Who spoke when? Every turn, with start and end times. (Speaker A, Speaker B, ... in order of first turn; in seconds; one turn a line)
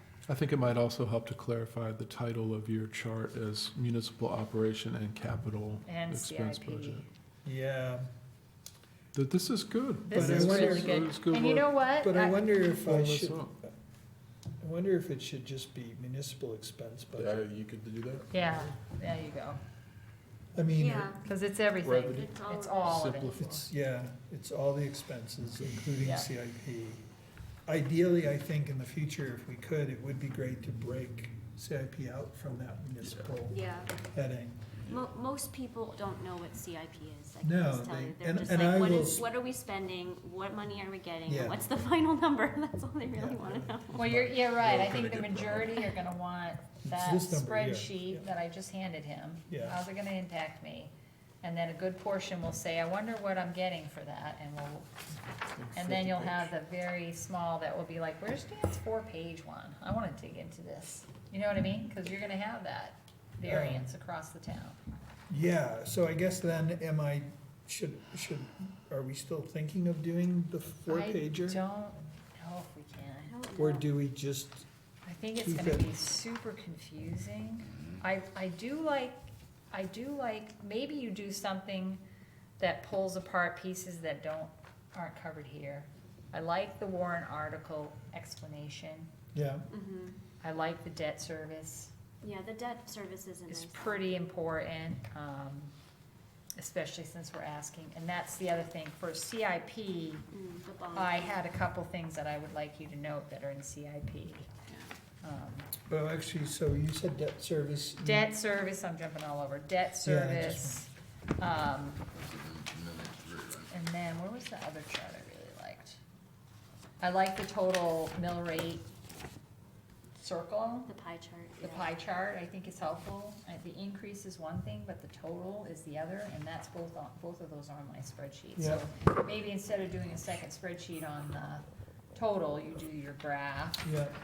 Speaker A: 0.3-7.0
Speaker B: 5.9-7.0
Speaker C: 7.4-8.0
Speaker A: 9.1-11.7
Speaker B: 10.0-12.4
Speaker C: 10.1-11.1
Speaker C: 12.0-13.7
Speaker A: 12.8-13.5
Speaker C: 14.6-17.5
Speaker A: 17.1-18.6
Speaker B: 18.3-19.6
Speaker C: 20.5-21.2
Speaker D: 20.8-21.2
Speaker B: 21.2-23.6
Speaker A: 21.8-22.3
Speaker D: 22.0-23.0
Speaker A: 22.9-23.6
Speaker C: 23.3-27.0
Speaker B: 26.0-26.3
Speaker C: 27.7-34.6
Speaker A: 33.0-33.3
Speaker D: 33.5-33.9
Speaker D: 34.9-44.0
Speaker C: 37.4-39.2
Speaker C: 41.2-41.6
Speaker C: 43.1-44.3
Speaker B: 43.9-54.9
Speaker A: 44.0-45.8
Speaker C: 46.8-48.3
Speaker C: 49.5-49.8
Speaker A: 55.5-56.4
Speaker B: 55.7-64.8
Speaker C: 63.4-63.9
Speaker C: 65.3-71.6
Speaker B: 70.8-73.4
Speaker D: 73.3-73.9
Speaker C: 73.5-74.7
Speaker B: 75.0-82.0
Speaker C: 75.4-75.9
Speaker E: 77.7-78.0
Speaker B: 82.6-89.1
Speaker C: 89.3-89.7
Speaker D: 89.7-90.2
Speaker B: 90.4-91.9
Speaker D: 92.2-94.0
Speaker B: 93.5-95.7
Speaker B: 96.6-100.3
Speaker D: 100.3-101.4
Speaker B: 100.9-104.5
Speaker D: 104.7-104.9
Speaker B: 105.2-105.7
Speaker C: 105.9-108.3
Speaker B: 108.0-112.0
Speaker C: 110.0-110.8
Speaker E: 112.1-113.7
Speaker B: 113.7-116.0
Speaker B: 117.0-118.8
Speaker B: 120.2-120.9
Speaker D: 120.8-121.9
Speaker B: 121.6-131.6
Speaker C: 128.6-128.8
Speaker B: 132.1-133.9
Speaker C: 133.8-134.1